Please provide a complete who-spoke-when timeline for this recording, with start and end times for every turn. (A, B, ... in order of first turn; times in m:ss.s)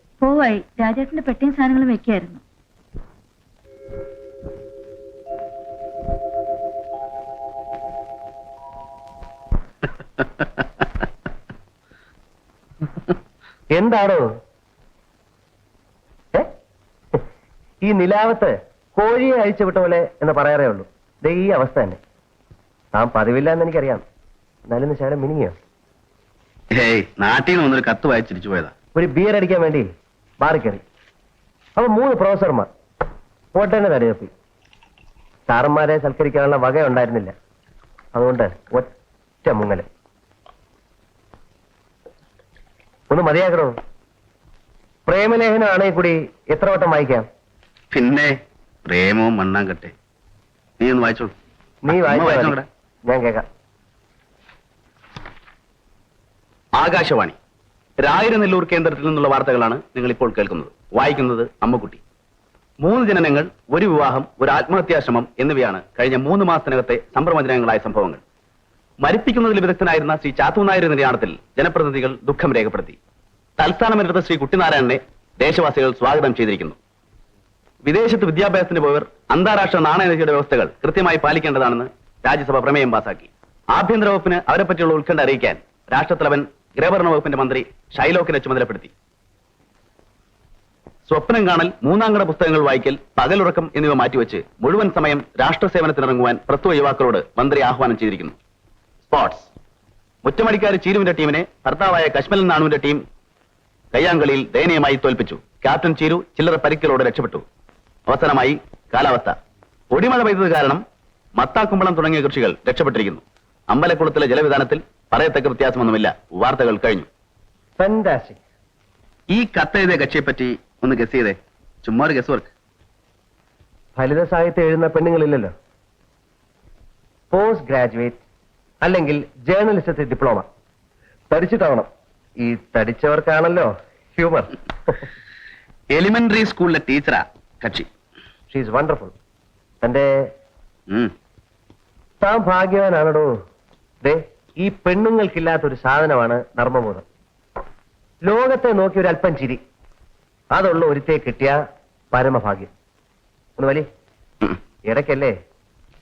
0:00.2-0:02.4 A
0:13.7-0:14.2 B
0:17.8-0:22.0 B
0:22.9-0:24.0 B
0:24.7-0:25.6 B
0:26.7-0:28.7 C
0:29.0-0:29.9 B
0:30.4-0:30.8 B
0:31.8-0:32.7 B
0:33.6-0:34.3 B
0:35.5-0:37.3 B
0:38.1-0:38.9 B
0:39.4-0:39.9 B
0:43.1-0:43.7 B
0:45.1-0:47.3 B
0:47.9-0:49.9 C
0:50.8-0:51.3 C
0:51.9-0:53.4 B
0:51.9-0:52.7 C
0:56.8-0:57.4 C
0:58.0-1:02.0 C
1:02.8-1:08.2 C
1:09.0-1:13.0 C
1:13.6-1:16.8 C
1:17.8-1:28.9 C
1:31.1-1:38.4 C
1:39.0-1:39.5 C
1:40.2-1:43.0 C
1:43.9-1:47.4 C
1:48.1-1:49.4 C
1:49.9-1:50.8 C
1:51.4-1:57.1 C
1:57.8-1:58.4 B
1:59.3-2:02.5 C
2:04.0-2:05.5 B
2:07.3-2:08.2 B
2:08.8-2:10.4 B
2:11.3-2:11.9 B
2:12.4-2:15.0 B
2:15.9-2:17.9 C
2:18.5-2:19.1 B
2:19.8-2:20.1 B
2:22.2-2:23.3 B
2:24.0-2:27.0 B
2:28.2-2:29.6 B
2:30.5-2:31.6 B
2:32.1-2:32.7 B
2:33.6-2:33.9 B
2:34.9-2:35.3 B